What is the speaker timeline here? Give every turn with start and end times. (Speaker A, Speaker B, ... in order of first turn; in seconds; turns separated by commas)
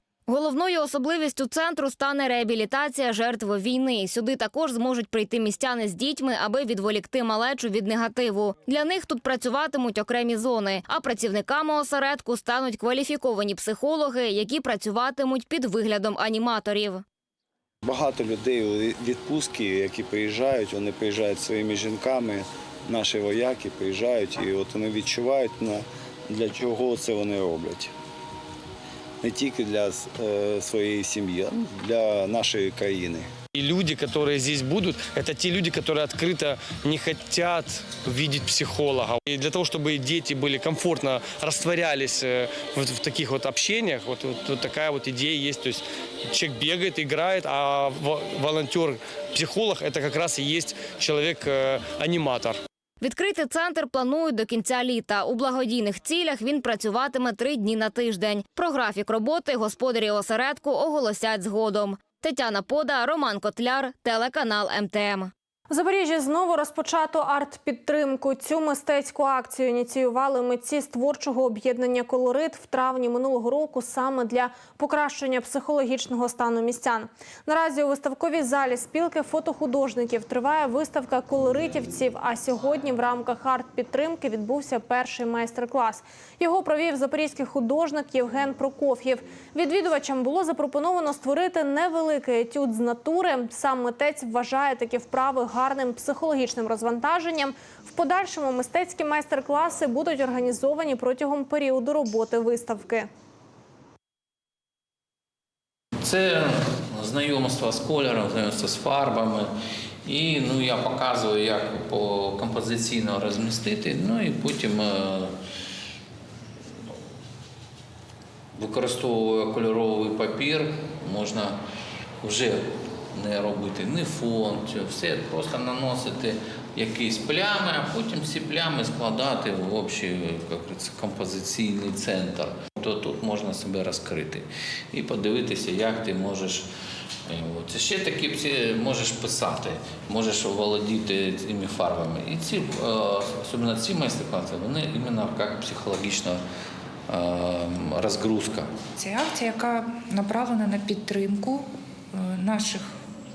Speaker A: 0.3-17.0, Speaker B: 17.8-27.9, Speaker B: 29.2-33.3, Speaker C: 33.5-52.6, Speaker A: 53.0-65.3, Speaker D: 65.7-103.1, Speaker E: 106.0-109.5, Speaker E: 110.0-115.3, Speaker E: 118.5-121.6, Speaker E: 122.2-136.7, Speaker E: 137.3-146.4, Speaker E: 147.1-148.7, Speaker F: 149.0-153.0